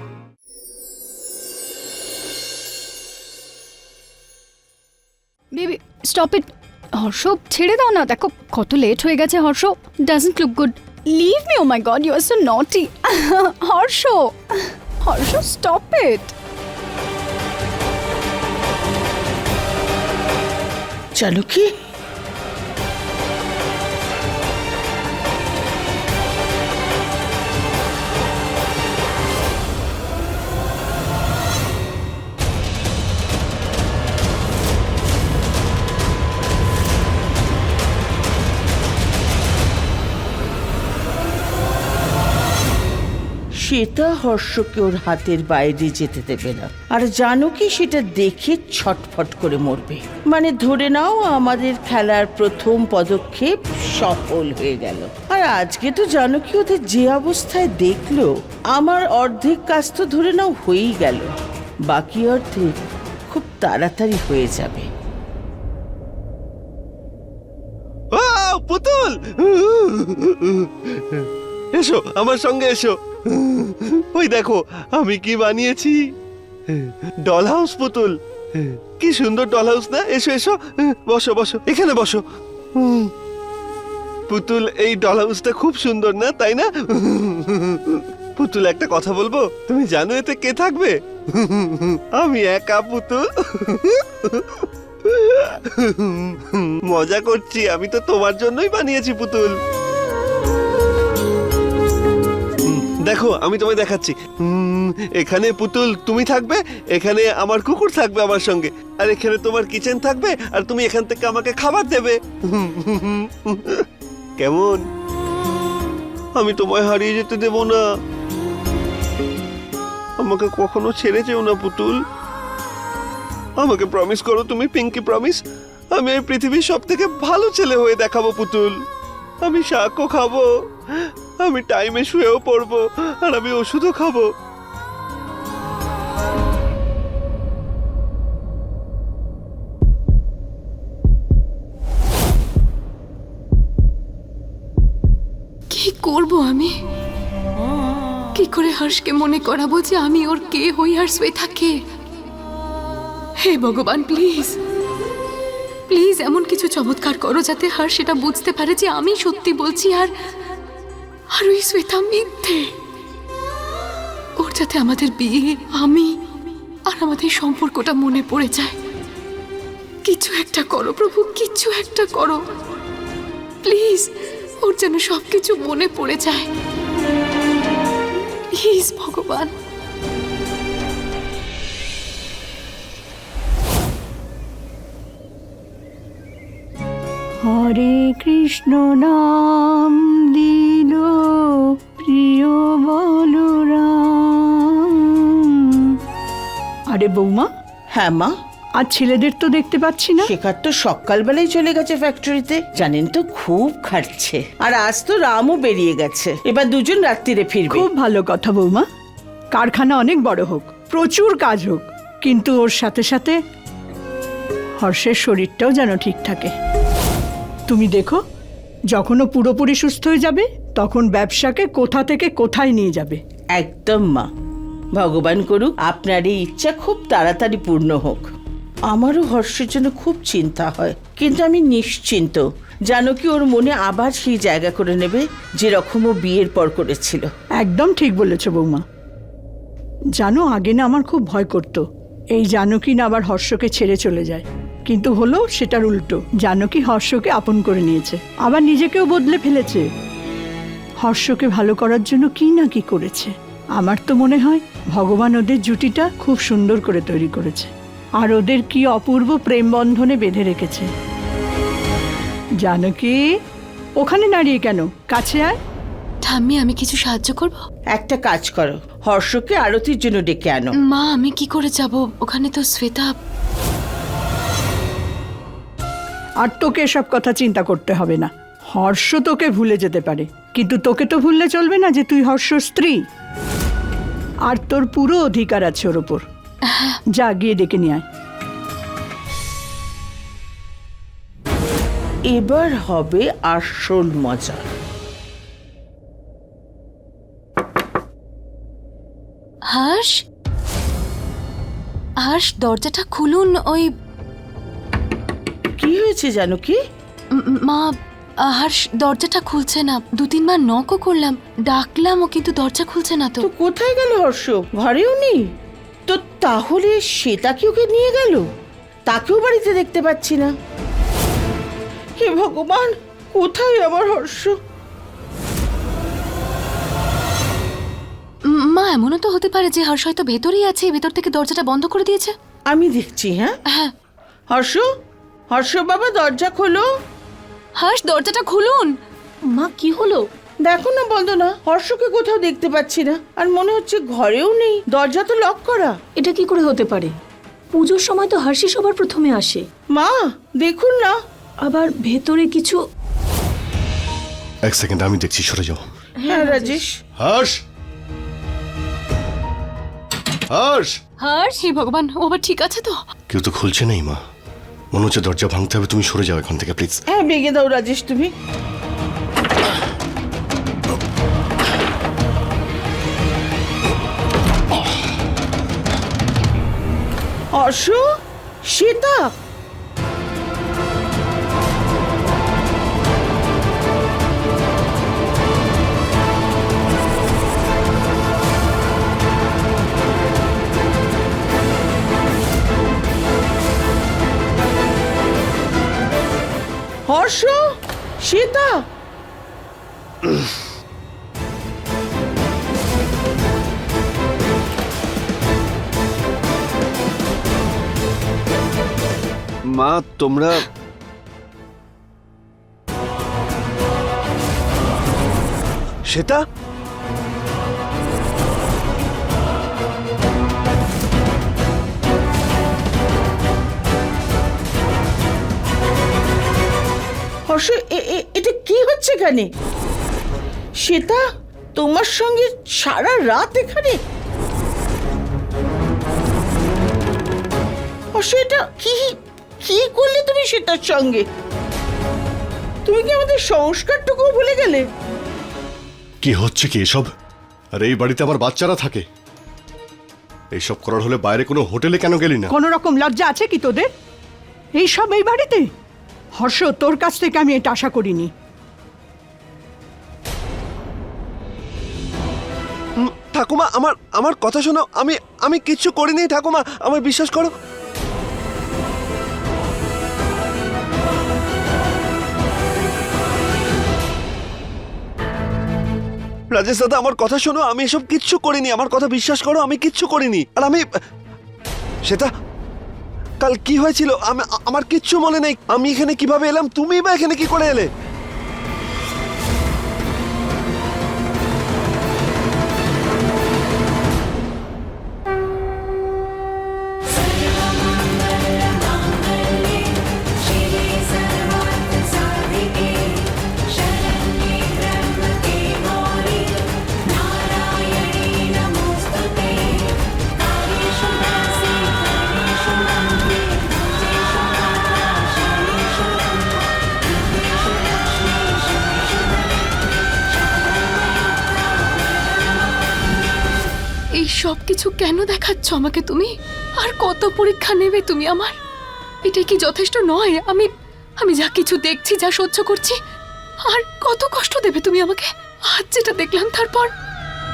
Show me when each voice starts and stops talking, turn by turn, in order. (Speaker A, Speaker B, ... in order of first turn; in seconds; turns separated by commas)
Speaker A: 5.5-16.3, Speaker B: 21.1-21.7, Speaker B: 43.6-61.3, Speaker B: 61.9-62.7, Speaker B: 63.3-64.9, Speaker C: 68.1-76.0, Speaker C: 76.7-82.2, Speaker C: 82.8-83.1, Speaker C: 84.3-99.5, Speaker C: 102.7-113.8, Speaker C: 114.4-114.8, Speaker C: 116.3-117.8, Speaker C: 120.2-122.0, Speaker C: 123.6-125.4, Speaker C: 125.9-128.7, Speaker C: 129.4-130.5, Speaker C: 131.0-134.3, Speaker D: 145.7-146.7, Speaker D: 148.3-151.8, Speaker D: 153.4-154.6, Speaker D: 155.9-160.1, Speaker D: 161.3-162.7, Speaker D: 164.4-166.1, Speaker D: 166.8-168.7, Speaker D: 170.0-172.4, Speaker D: 173.6-174.1, Speaker D: 174.6-176.5, Speaker D: 178.5-179.5, Speaker E: 187.4-195.1, Speaker E: 196.9-197.5, Speaker B: 197.9-198.3, Speaker E: 198.8-200.3, Speaker B: 200.2-207.9, Speaker E: 207.7-208.8, Speaker E: 209.5-213.3, Speaker E: 214.8-216.5, Speaker E: 217.7-218.2, Speaker E: 218.9-223.2, Speaker B: 223.5-224.3, Speaker B: 224.9-228.3, Speaker B: 228.9-237.3, Speaker E: 237.6-238.8, Speaker E: 240.2-241.8, Speaker E: 242.3-249.8, Speaker E: 251.0-257.7, Speaker E: 258.2-260.9, Speaker E: 262.6-263.1, Speaker E: 264.0-265.6, Speaker D: 266.2-267.6, Speaker B: 267.9-270.7, Speaker D: 270.9-273.1, Speaker E: 276.4-283.0, Speaker E: 284.5-286.2, Speaker D: 286.7-287.0, Speaker E: 287.1-288.0, Speaker B: 292.3-294.6, Speaker D: 299.7-300.1, Speaker D: 302.2-303.9, Speaker B: 305.8-306.8, Speaker D: 307.4-307.9, Speaker D: 308.4-313.4, Speaker B: 313.4-315.4, Speaker B: 316.1-318.4, Speaker B: 319.1-320.5, Speaker B: 322.2-324.5, Speaker D: 328.5-332.3, Speaker B: 332.7-333.6, Speaker B: 334.5-334.8, Speaker B: 335.5-336.8, Speaker D: 337.8-338.9, Speaker F: 339.5-340.2, Speaker B: 340.6-345.9, Speaker F: 346.1-347.1, Speaker F: 347.7-349.6, Speaker B: 349.9-351.1, Speaker F: 351.6-352.8, Speaker G: 354.6-355.9, Speaker F: 356.2-356.7, Speaker B: 356.3-356.9, Speaker G: 357.2-357.6, Speaker G: 360.5-361.0, Speaker D: 361.2-363.0, Speaker G: 363.3-364.2, Speaker G: 364.9-367.0, Speaker B: 367.1-368.3, Speaker B: 377.6-378.0, Speaker B: 378.7-379.2, Speaker B: 397.1-397.6, Speaker B: 398.2-398.7, Speaker C: 400.2-400.5, Speaker C: 409.7-410.6, Speaker C: 416.1-416.4, Speaker B: 427.5-429.5, Speaker B: 430.8-431.2, Speaker B: 431.7-434.0, Speaker B: 438.1-441.2, Speaker B: 442.9-444.8, Speaker G: 446.2-447.1, Speaker G: 447.8-449.0, Speaker G: 450.5-452.5, Speaker E: 452.5-453.9, Speaker E: 454.8-455.6, Speaker E: 456.4-458.3, Speaker C: 463.0-467.5, Speaker C: 476.5-480.8, Speaker C: 483.4-487.9, Speaker D: 500.8-502.9, Speaker D: 504.3-506.4, Speaker D: 507.4-509.9, Speaker D: 510.9-512.5, Speaker D: 513.1-513.4, Speaker D: 514.9-515.6, Speaker D: 524.2-528.5, Speaker D: 529.2-533.0, Speaker D: 533.6-536.9